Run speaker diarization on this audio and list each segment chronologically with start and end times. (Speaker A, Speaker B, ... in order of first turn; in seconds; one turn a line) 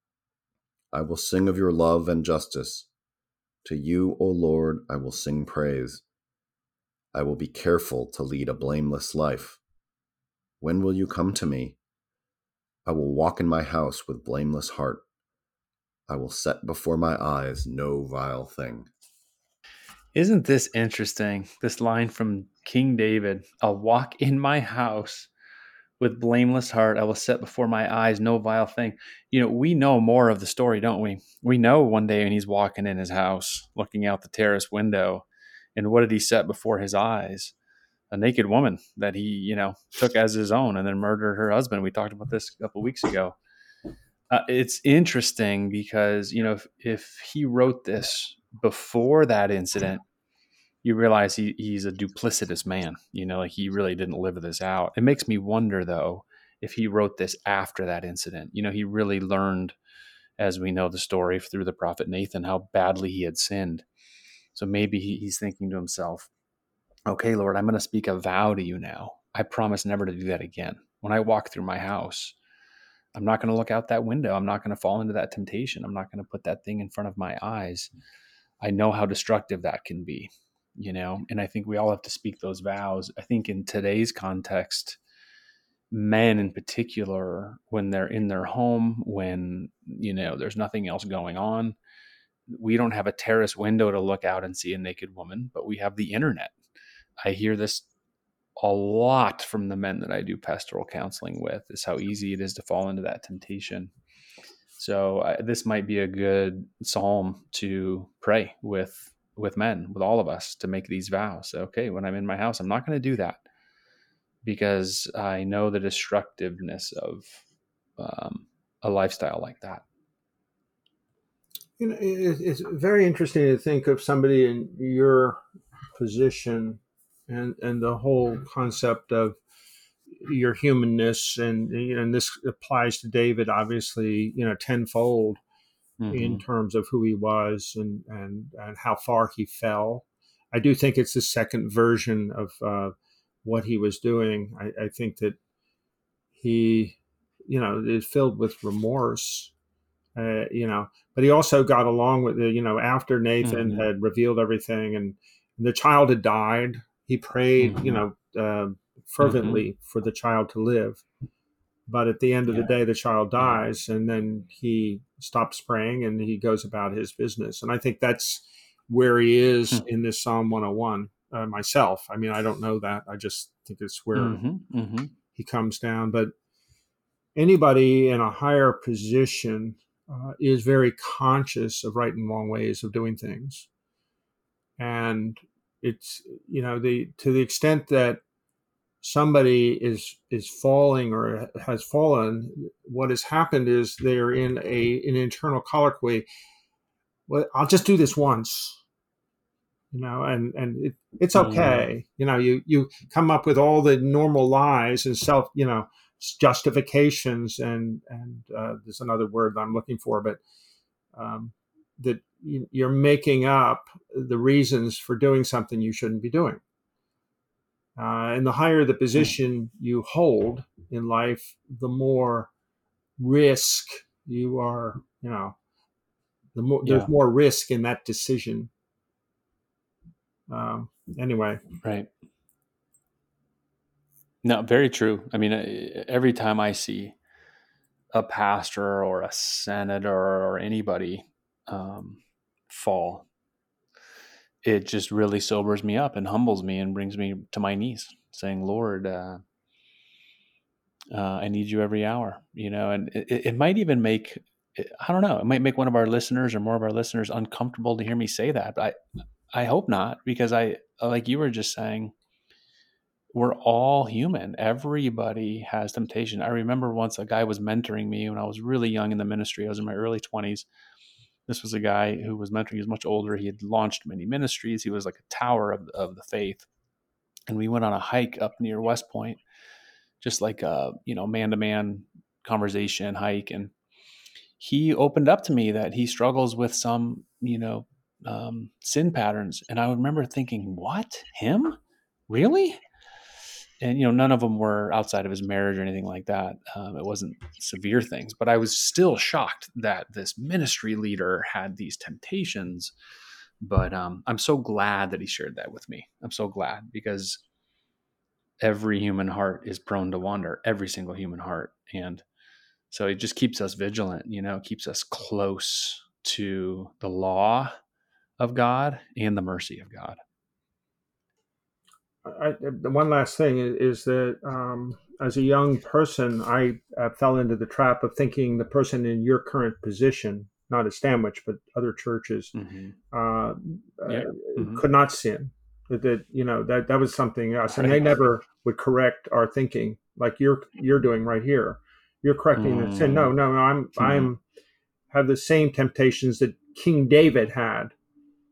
Speaker A: 0.9-2.9
Speaker A: 3.6-6.0
Speaker A: 7.1-9.6
Speaker A: 10.6-11.8
Speaker A: 12.8-15.0
Speaker A: 16.1-18.9
Speaker B: 20.1-25.3
Speaker B: 26.0-35.2
Speaker B: 35.8-37.5
Speaker B: 38.1-43.3
Speaker B: 44.3-50.0
Speaker B: 50.8-59.7
Speaker B: 60.4-63.8
Speaker B: 64.5-66.3
Speaker B: 67.1-72.3
Speaker B: 73.1-77.9
Speaker B: 78.6-85.0
Speaker B: 85.9-91.8
Speaker B: 92.5-96.5
Speaker B: 97.2-97.9
Speaker B: 98.6-103.9
Speaker B: 104.8-113.4
Speaker B: 114.4-117.4
Speaker B: 118.0-119.8
Speaker C: 121.8-125.4
Speaker C: 126.0-129.4
Speaker C: 130.2-135.4
Speaker B: 136.0-136.4
Speaker C: 136.1-145.4
Speaker C: 146.3-149.5
Speaker C: 150.2-161.0
Speaker B: 153.4-153.9
Speaker B: 157.6-158.0
Speaker B: 159.2-159.7
Speaker C: 161.9-174.4
Speaker B: 162.4-162.8
Speaker B: 174.1-175.2
Speaker C: 175.3-176.3
Speaker C: 177.3-183.7
Speaker C: 184.8-188.2
Speaker C: 189.0-196.2
Speaker C: 197.3-198.8
Speaker C: 199.9-210.4
Speaker B: 201.3-201.9
Speaker C: 211.1-216.6
Speaker C: 217.9-222.5
Speaker C: 223.2-225.6
Speaker C: 226.5-228.7
Speaker B: 226.8-227.1
Speaker C: 230.5-231.6
Speaker B: 231.8-232.1
Speaker B: 234.4-237.2
Speaker B: 238.1-243.2
Speaker B: 244.6-249.4
Speaker B: 251.1-258.9
Speaker B: 259.5-262.1
Speaker B: 263.3-270.7
Speaker B: 271.5-276.7
Speaker B: 277.5-279.4
Speaker B: 280.2-283.7
Speaker B: 284.6-291.8
Speaker B: 292.3-292.8
Speaker B: 293.8-302.9
Speaker B: 303.6-307.4
Speaker B: 308.6-312.2
Speaker B: 312.9-317.7
Speaker B: 318.4-320.2
Speaker C: 322.2-332.5
Speaker B: 332.5-332.9
Speaker C: 333.1-344.4
Speaker B: 334.1-334.8
Speaker B: 337.7-338.2
Speaker B: 342.5-343.3
Speaker B: 343.9-344.3
Speaker C: 345.1-347.9